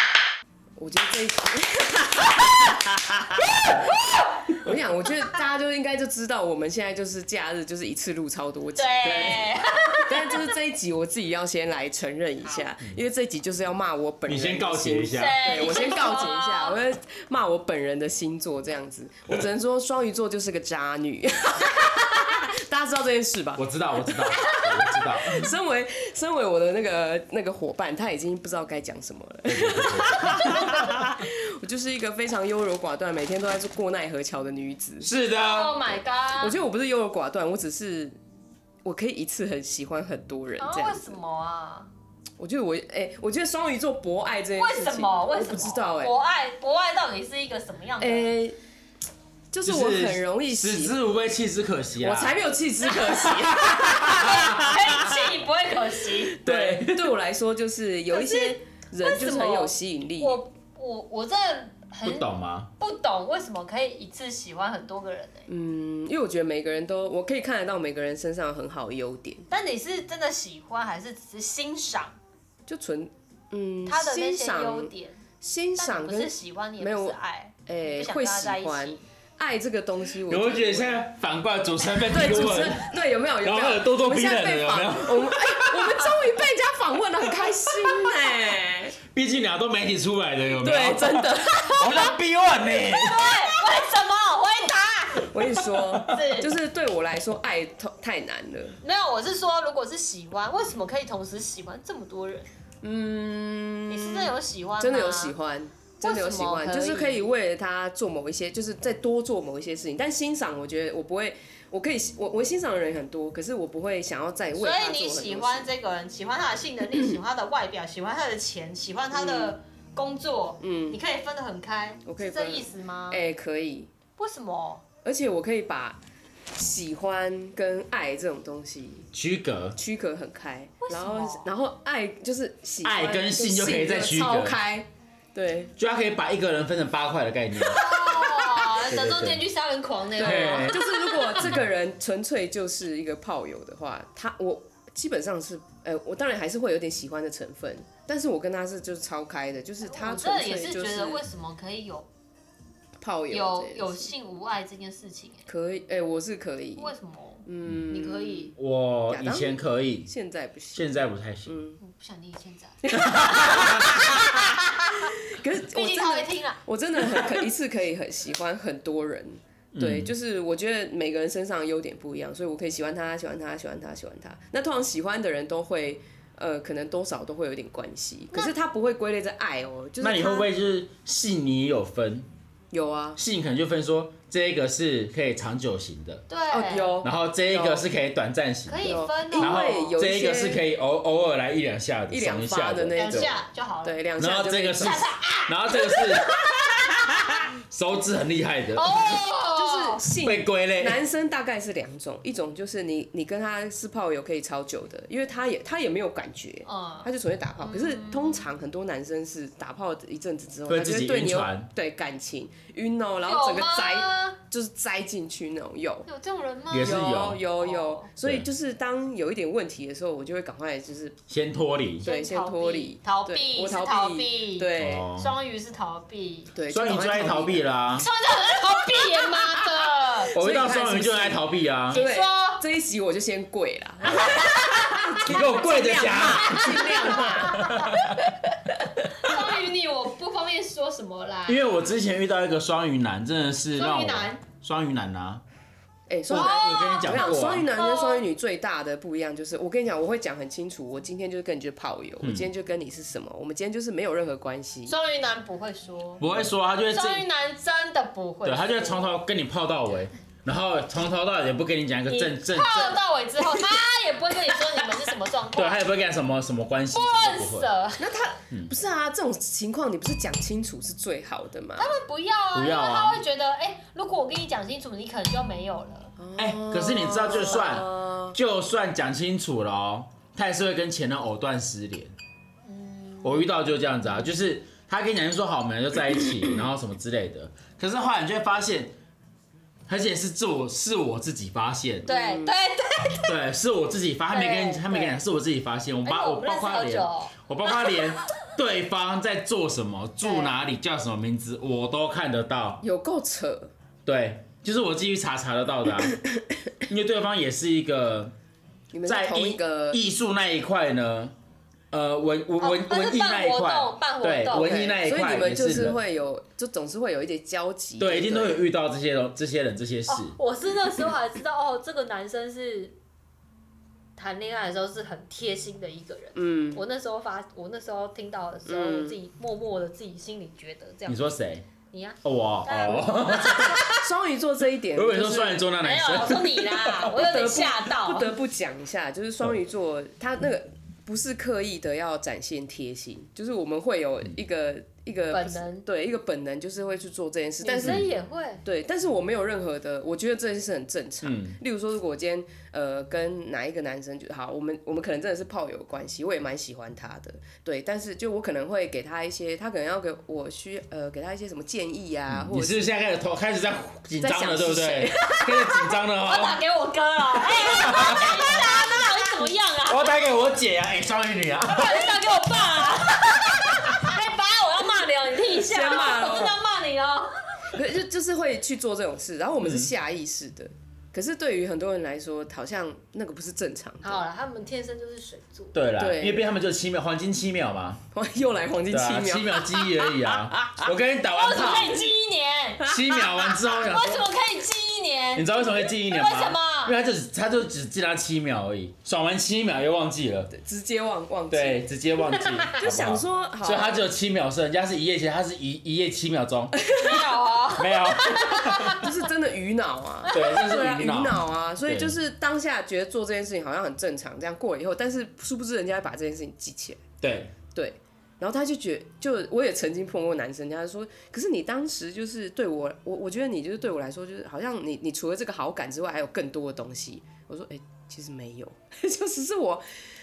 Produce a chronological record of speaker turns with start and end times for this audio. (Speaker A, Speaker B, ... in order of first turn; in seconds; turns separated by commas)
Speaker A: 0.8-3.7, Speaker A: 4.5-35.2, Speaker B: 8.8-10.5, Speaker C: 14.2-15.6, Speaker B: 15.1-16.8, Speaker C: 23.6-25.5, Speaker B: 24.4-24.7, Speaker C: 29.4-30.9, Speaker B: 30.4-30.9, Speaker C: 35.0-35.7, Speaker B: 35.2-36.5, Speaker A: 36.4-38.2, Speaker A: 38.8-41.1, Speaker B: 40.6-41.9, Speaker A: 42.4-46.1, Speaker B: 44.5-48.3, Speaker A: 48.0-48.5, Speaker A: 49.5-51.0, Speaker C: 49.6-52.4, Speaker A: 52.0-55.2, Speaker C: 53.2-54.8, Speaker B: 53.9-56.4, Speaker A: 56.3-60.4, Speaker C: 56.4-57.1, Speaker B: 58.1-65.5, Speaker C: 62.0-62.7, Speaker A: 65.5-69.5, Speaker B: 69.5-72.2, Speaker A: 72.7-81.0, Speaker B: 73.8-75.2, Speaker B: 75.8-79.0, Speaker C: 80.3-82.9, Speaker A: 81.9-89.0, Speaker C: 83.4-86.2, Speaker C: 87.4-88.4, Speaker C: 89.0-93.8, Speaker A: 90.6-92.1, Speaker B: 92.7-96.5, Speaker A: 95.2-98.8, Speaker B: 98.8-102.5, Speaker A: 102.8-115.7, Speaker B: 103.9-105.3, Speaker B: 106.0-107.3, Speaker B: 114.5-123.2, Speaker A: 119.1-119.6, Speaker A: 120.6-121.0, Speaker A: 122.0-123.9, Speaker B: 124.2-124.8, Speaker A: 125.0-126.0, Speaker A: 126.5-129.1, Speaker C: 129.1-129.8, Speaker A: 129.8-135.7, Speaker B: 130.8-131.5, Speaker C: 132.8-134.6, Speaker C: 135.8-138.3, Speaker B: 137.6-141.5, Speaker C: 138.8-139.4, Speaker A: 140.2-151.2, Speaker C: 140.2-140.9, Speaker B: 149.8-152.1, Speaker A: 153.0-154.1, Speaker B: 153.3-155.5, Speaker A: 155.5-156.9, Speaker B: 156.8-158.5, Speaker A: 157.4-158.5, Speaker C: 158.6-160.1, Speaker A: 159.1-161.8, Speaker C: 160.7-161.6, Speaker B: 161.8-166.6, Speaker A: 162.8-180.5, Speaker C: 162.9-164.0, Speaker C: 169.7-170.1, Speaker C: 180.0-182.3, Speaker A: 182.7-183.2, Speaker C: 183.2-186.2, Speaker B: 186.3-187.0, Speaker A: 186.5-187.8, Speaker C: 187.0-193.3, Speaker B: 188.7-189.9, Speaker A: 188.8-190.6, Speaker A: 192.1-195.1, Speaker B: 192.9-194.0, Speaker C: 194.2-198.9, Speaker B: 194.8-197.1, Speaker B: 198.7-200.0, Speaker A: 199.5-216.1, Speaker C: 200.2-201.0, Speaker B: 206.6-208.5, Speaker C: 210.7-211.7, Speaker B: 213.2-214.4, Speaker B: 216.0-218.1, Speaker C: 216.7-217.4, Speaker A: 216.8-221.2, Speaker C: 218.2-218.5, Speaker C: 221.3-222.1, Speaker A: 222.0-225.1, Speaker B: 222.0-226.5, Speaker C: 224.7-225.3, Speaker A: 226.5-227.6, Speaker C: 226.7-228.1, Speaker B: 228.0-230.3, Speaker A: 228.8-229.6, Speaker A: 230.2-237.8, Speaker C: 230.3-232.0, Speaker B: 231.9-232.6, Speaker B: 234.1-235.2, Speaker C: 234.1-234.6, Speaker C: 235.2-238.2, Speaker B: 236.2-238.0, Speaker A: 238.4-239.4, Speaker B: 239.1-241.6, Speaker C: 241.5-245.4, Speaker B: 243.7-244.4, Speaker A: 246.1-254.9, Speaker C: 246.3-247.7, Speaker B: 246.3-248.2, Speaker C: 252.2-252.5, Speaker B: 254.9-256.3, Speaker C: 256.2-257.3, Speaker B: 256.9-259.1, Speaker C: 258.4-263.0, Speaker B: 262.1-265.9, Speaker C: 265.5-267.7, Speaker B: 266.9-268.1, Speaker A: 268.0-271.9, Speaker B: 271.8-276.1, Speaker C: 272.5-273.2, Speaker A: 276.2-278.4, Speaker C: 276.4-282.1, Speaker B: 282.6-284.2, Speaker C: 283.2-288.9, Speaker C: 289.9-292.1, Speaker A: 292.1-292.5, Speaker B: 292.1-293.3, Speaker C: 293.3-302.8, Speaker B: 294.3-295.2, Speaker B: 296.0-298.1, Speaker B: 300.2-300.6, Speaker A: 302.8-303.7, Speaker C: 304.1-306.2, Speaker A: 306.1-306.4, Speaker C: 306.8-308.3, Speaker A: 308.9-310.0, Speaker C: 309.1-311.3, Speaker C: 311.9-316.0, Speaker B: 312.6-314.7, Speaker A: 314.5-318.6, Speaker C: 318.0-320.4, Speaker B: 320.1-323.0, Speaker B: 324.1-331.3, Speaker A: 326.3-326.8, Speaker A: 328.6-329.2, Speaker C: 331.1-331.7, Speaker B: 331.9-334.1, Speaker C: 332.2-333.8, Speaker A: 333.4-335.7, Speaker C: 334.9-337.0, Speaker B: 335.8-338.3, Speaker A: 337.0-348.1, Speaker B: 345.3-345.9, Speaker B: 347.6-348.6, Speaker C: 347.8-348.1, Speaker A: 348.6-362.9, Speaker C: 351.2-351.6, Speaker C: 362.3-366.6, Speaker A: 364.2-365.9, Speaker B: 366.2-370.1, Speaker C: 367.5-368.6, Speaker C: 369.9-372.2, Speaker B: 371.7-377.8, Speaker C: 373.2-374.0, Speaker A: 375.6-376.6, Speaker A: 377.7-384.2, Speaker C: 379.6-379.9, Speaker B: 384.0-385.8, Speaker C: 385.7-388.0, Speaker A: 386.0-386.4, Speaker A: 388.1-390.9, Speaker C: 388.9-392.1, Speaker B: 391.3-396.9, Speaker A: 392.8-393.4, Speaker C: 392.8-394.3, Speaker C: 395.3-400.5, Speaker A: 400.5-401.9, Speaker C: 401.5-406.8, Speaker B: 402.4-402.7, Speaker A: 402.8-404.0, Speaker A: 406.8-407.4, Speaker B: 406.9-409.0, Speaker C: 407.7-409.0, Speaker A: 408.9-417.0, Speaker C: 410.3-412.2, Speaker C: 417.2-417.5, Speaker A: 417.7-429.8